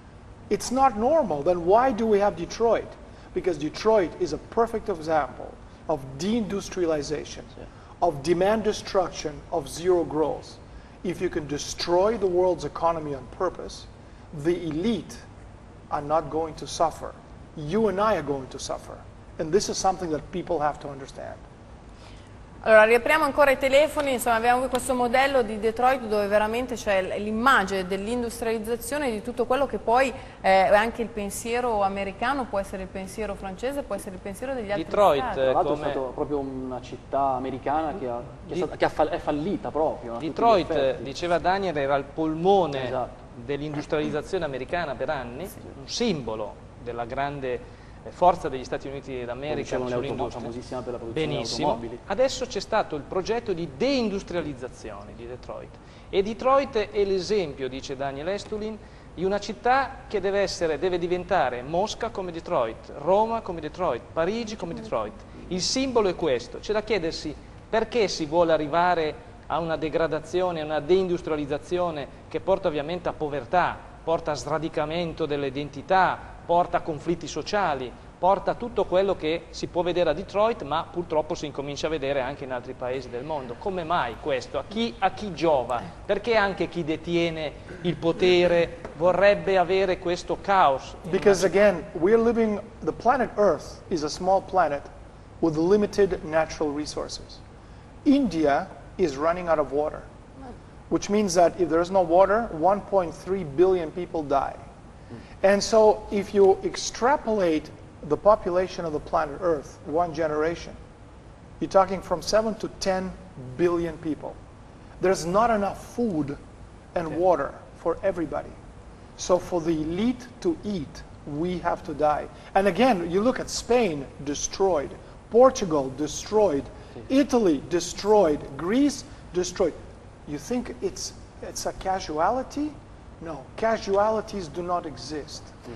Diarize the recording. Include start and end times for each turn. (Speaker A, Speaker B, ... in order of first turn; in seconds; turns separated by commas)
Speaker A: 0.5-15.2, Speaker A: 15.9-21.4, Speaker B: 22.6-35.5, Speaker C: 34.7-36.0, Speaker D: 35.4-41.1, Speaker C: 40.2-50.5, Speaker D: 42.7-43.1, Speaker D: 49.5-52.0, Speaker C: 51.1-91.5, Speaker A: 91.1-94.9, Speaker A: 95.4-97.4, Speaker A: 98.0-100.1, Speaker A: 100.9-104.6, Speaker A: 105.4-110.8, Speaker A: 111.6-114.4, Speaker A: 115.0-116.4, Speaker A: 116.9-118.6, Speaker A: 119.2-135.6